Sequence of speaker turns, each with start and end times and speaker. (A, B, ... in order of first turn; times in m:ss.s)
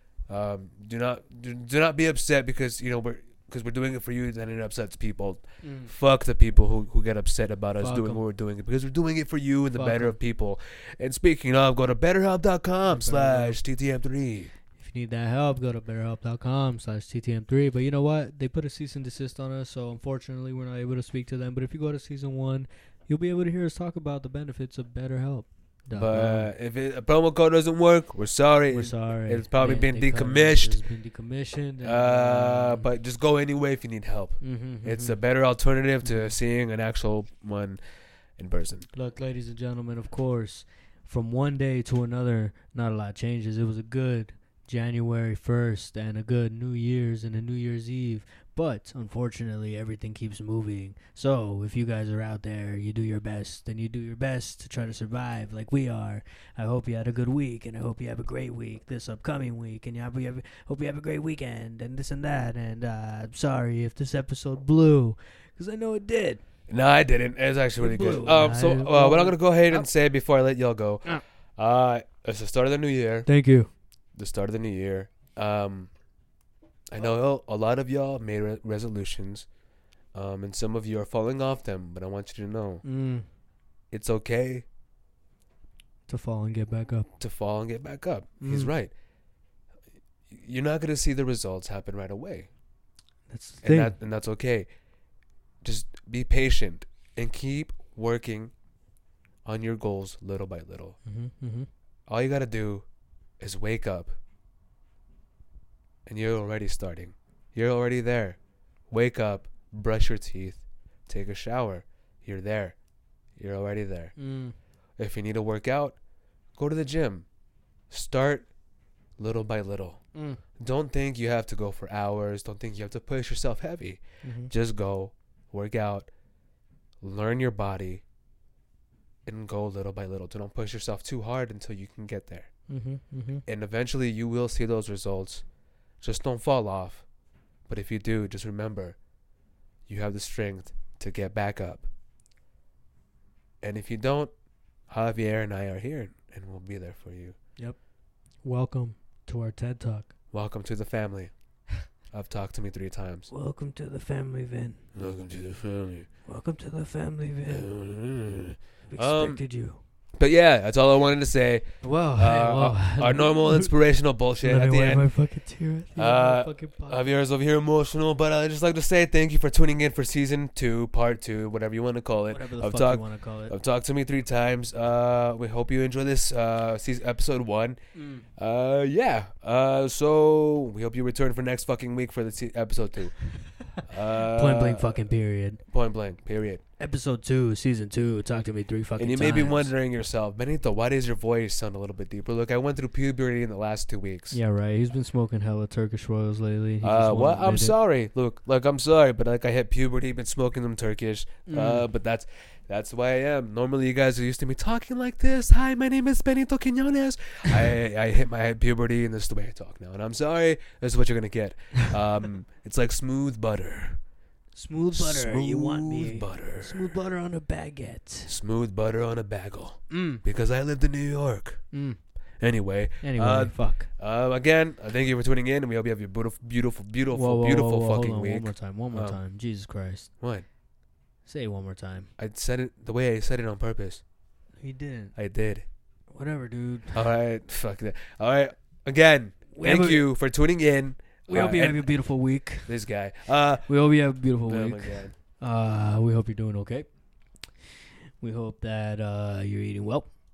0:00.3-0:14.5 A
0:05.6-0:05.9 B
0:07.8-0:08.2 B
0:09.7-0:10.2 B
0:12.8-0:13.6 B
0:14.8-0:26.5 B
0:25.9-0:30.8 A
0:28.7-0:32.8 B
0:31.8-0:37.8 A
0:34.4-0:35.2 B
0:36.0-0:36.3 B
0:38.4-0:38.9 A
0:38.9-1:06.4 B
1:06.7-1:13.3 A
1:07.8-1:09.8 B
1:13.2-1:13.7 B
1:14.1-1:15.9 A
1:16.9-1:19.5 A
1:20.1-1:22.8 A
1:22.8-1:23.2 B
1:23.9-1:24.6 A
1:26.1-1:27.1 B
1:27.2-1:28.9 A
1:28.4-1:28.7 B
1:30.3-1:32.5 A
1:33.3-1:34.0 B
1:33.6-1:34.7 A
1:35.6-1:38.5 A
1:39.4-1:41.0 A
1:41.0-1:41.7 B
1:42.1-1:42.8 A
1:43.4-1:44.1 A
1:46.0-1:48.4 A
1:48.9-1:52.8 A
1:53.4-1:54.1 A
1:54.2-1:54.5 B
1:55.0-1:56.0 A
1:56.6-1:57.2 A
1:57.9-1:58.5 A
1:59.2-2:00.0 A
2:00.1-2:00.4 B
2:00.6-2:06.1 A
2:04.2-2:04.5 B
2:07.0-2:08.0 A
2:09.2-2:12.5 A
2:12.7-2:13.4 B
2:13.4-2:15.4 A
2:16.0-2:17.0 A
2:17.7-2:19.0 A
2:19.9-2:21.9 A
2:23.6-2:24.3 A
2:24.9-2:27.4 A
2:28.4-2:30.1 B
2:30.3-2:31.3 A
2:32.1-2:33.3 A
2:33.3-2:34.8 B
2:34.9-2:36.1 A
2:36.2-2:37.7 B
2:37.5-2:39.4 A
2:38.9-2:39.8 B
2:40.2-2:45.0 A
2:41.8-2:43.7 B
2:44.4-2:47.1 B
2:46.0-2:57.8 A
2:52.3-2:53.5 B
2:57.9-2:58.3 B
2:58.4-3:03.2 A
3:03.8-3:05.0 A
3:04.2-3:05.6 B
3:05.7-3:06.6 A
3:06.8-3:09.7 B
3:09.0-3:14.4 A
3:14.3-3:17.7 B
3:16.8-3:34.0 A
3:21.5-3:21.9 B
3:34.5-3:38.3 B
3:34.9-3:36.9 A
3:38.2-3:41.6 A
3:39.9-3:40.2 B
3:41.7-3:42.0 B
3:42.4-3:49.2 A
3:43.0-3:43.9 B
3:47.1-3:50.1 B
3:50.2-3:50.4 A
3:51.2-3:52.1 B
3:52.2-3:54.0 A
3:54.6-3:55.1 B
3:55.2-3:55.6 A
3:56.1-3:57.0 B
3:56.9-4:01.9 A
3:59.5-4:00.1 B
4:01.3-4:02.7 B
4:02.6-4:03.7 A
4:03.7-4:06.9 B
4:04.4-4:05.1 A
4:08.2-4:10.1 B